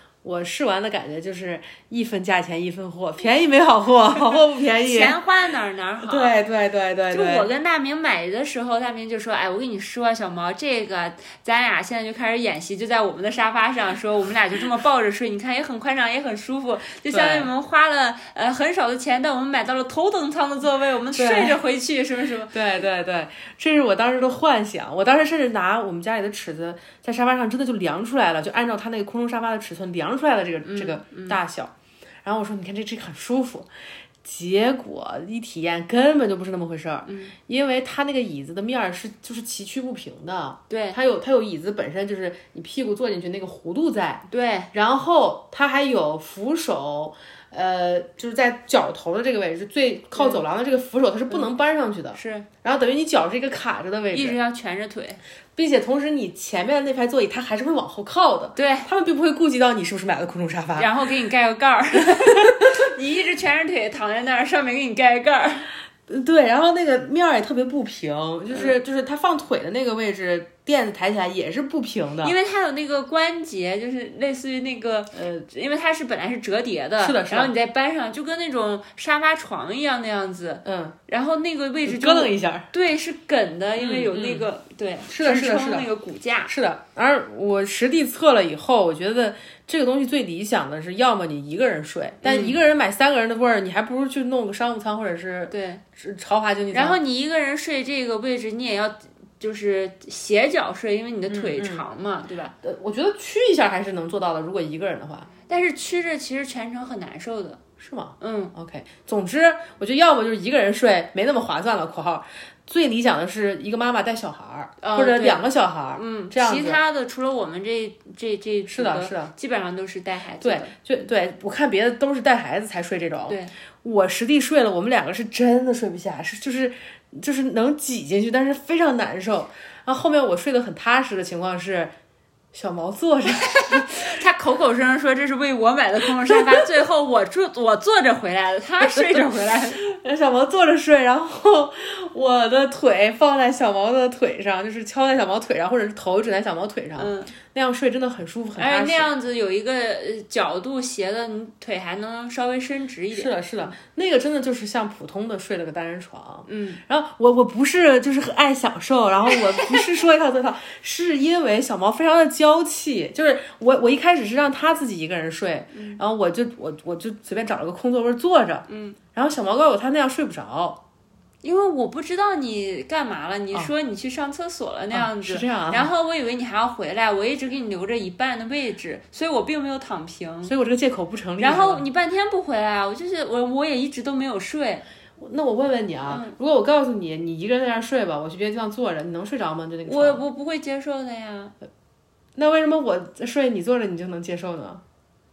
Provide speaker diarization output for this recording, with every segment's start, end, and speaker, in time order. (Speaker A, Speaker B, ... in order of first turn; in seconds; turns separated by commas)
Speaker A: 0.2-5.2, Speaker B: 4.8-6.4, Speaker A: 6.0-7.5, Speaker B: 7.1-22.6, Speaker A: 17.1-17.5, Speaker A: 21.1-21.6, Speaker A: 22.5-31.7, Speaker B: 30.6-31.4, Speaker A: 32.2-33.7, Speaker A: 34.2-54.4, Speaker B: 37.0-37.3, Speaker B: 40.7-41.0, Speaker B: 44.3-44.7, Speaker B: 50.1-50.4, Speaker B: 52.1-52.5, Speaker B: 54.1-55.2, Speaker A: 55.5-60.9, Speaker B: 58.5-58.9, Speaker B: 60.8-65.7, Speaker A: 62.0-62.9, Speaker A: 66.1-72.3, Speaker B: 68.5-68.8, Speaker B: 72.2-86.5, Speaker A: 75.1-75.4, Speaker A: 77.0-77.5, Speaker A: 80.6-81.0, Speaker A: 81.8-82.7, Speaker A: 83.8-84.5, Speaker A: 85.1-85.9, Speaker A: 86.5-97.0, Speaker B: 92.2-92.6, Speaker B: 95.5-95.8, Speaker B: 96.7-102.5, Speaker A: 101.3-101.8, Speaker A: 102.6-105.3, Speaker B: 105.5-107.6, Speaker A: 107.8-116.8, Speaker B: 108.2-108.5, Speaker B: 114.8-120.7, Speaker A: 118.7-119.3, Speaker A: 120.4-131.9, Speaker B: 123.3-123.5, Speaker A: 132.5-134.1, Speaker B: 133.3-139.8, Speaker A: 138.8-149.1, Speaker B: 146.9-147.3, Speaker B: 148.6-153.7, Speaker A: 153.1-170.8, Speaker B: 156.5-156.8, Speaker B: 165.7-166.0, Speaker B: 168.7-169.0, Speaker B: 171.4-180.5, Speaker A: 174.9-175.9, Speaker A: 180.4-181.8, Speaker B: 181.4-184.8, Speaker A: 185.2-190.2, Speaker B: 186.1-186.3, Speaker B: 189.8-191.5, Speaker A: 192.3-194.8